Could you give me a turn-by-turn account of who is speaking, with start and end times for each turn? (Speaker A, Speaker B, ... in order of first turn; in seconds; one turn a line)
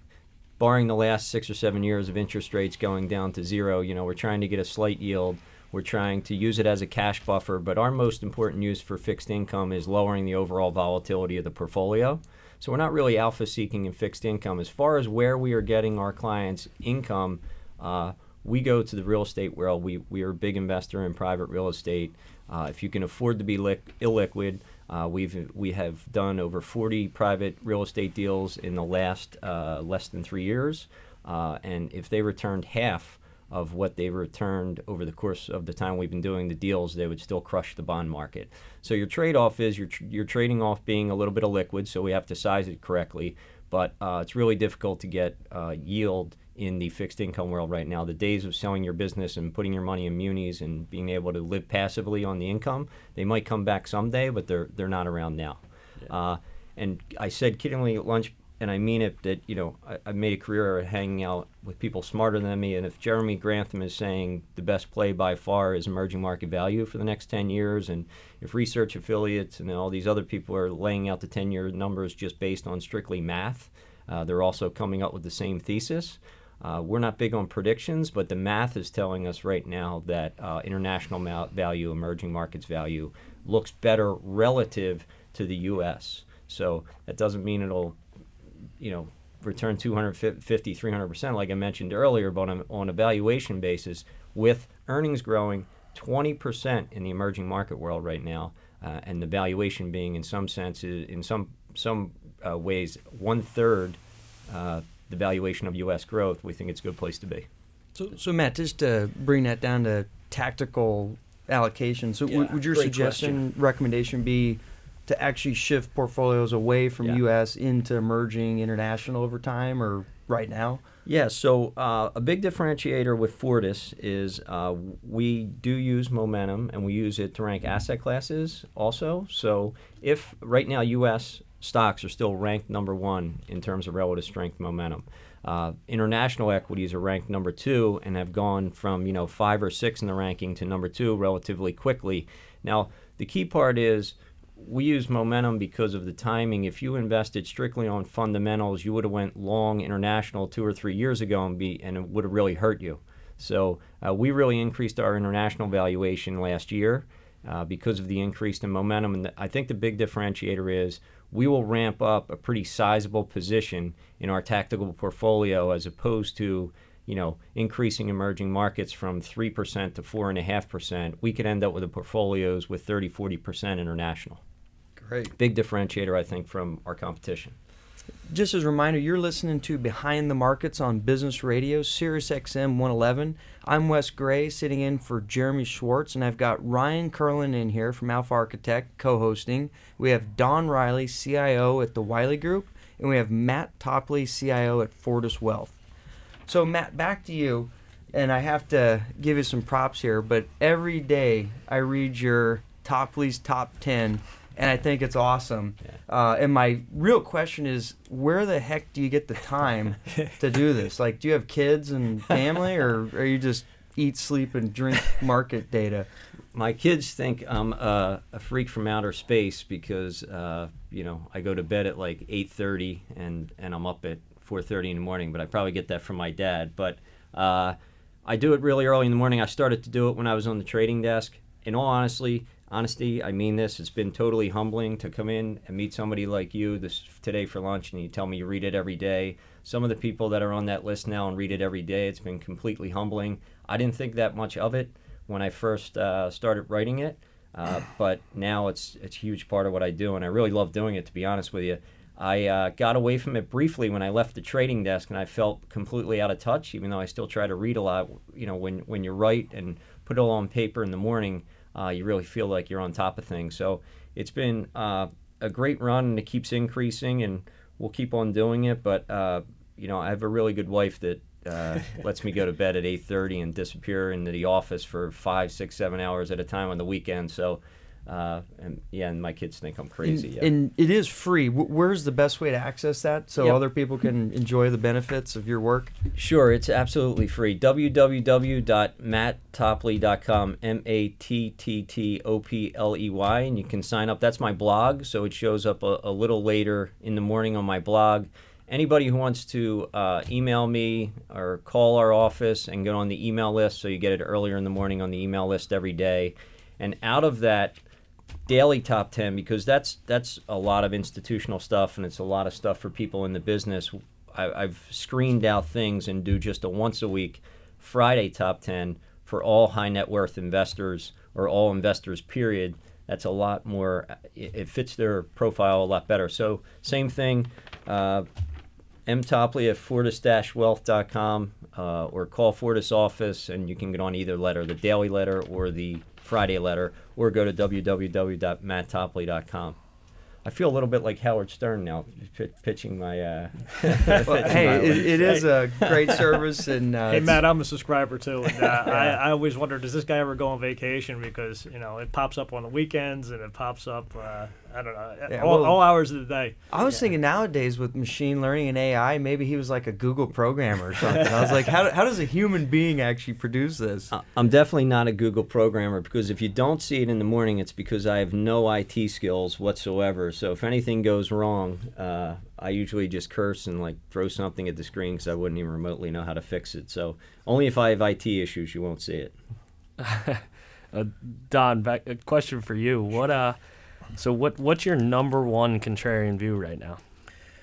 Speaker A: 0.6-88.0
Speaker A: 88.8-107.5
Speaker B: 108.0-120.8
Speaker A: 112.3-113.4
Speaker A: 121.1-174.4
Speaker B: 175.0-175.3
Speaker A: 175.4-177.6
Speaker B: 178.3-195.8
Speaker B: 196.5-216.1
Speaker A: 216.5-280.5
Speaker B: 280.0-285.9
Speaker A: 286.1-307.8
Speaker A: 308.5-328.3
Speaker A: 329.1-339.8
Speaker A: 340.4-346.2
Speaker B: 344.2-347.4
Speaker C: 347.1-356.7
Speaker B: 348.8-349.2
Speaker B: 355.3-355.8
Speaker B: 356.7-364.1
Speaker A: 364.1-379.3
Speaker D: 380.0-383.6
Speaker D: 384.2-387.0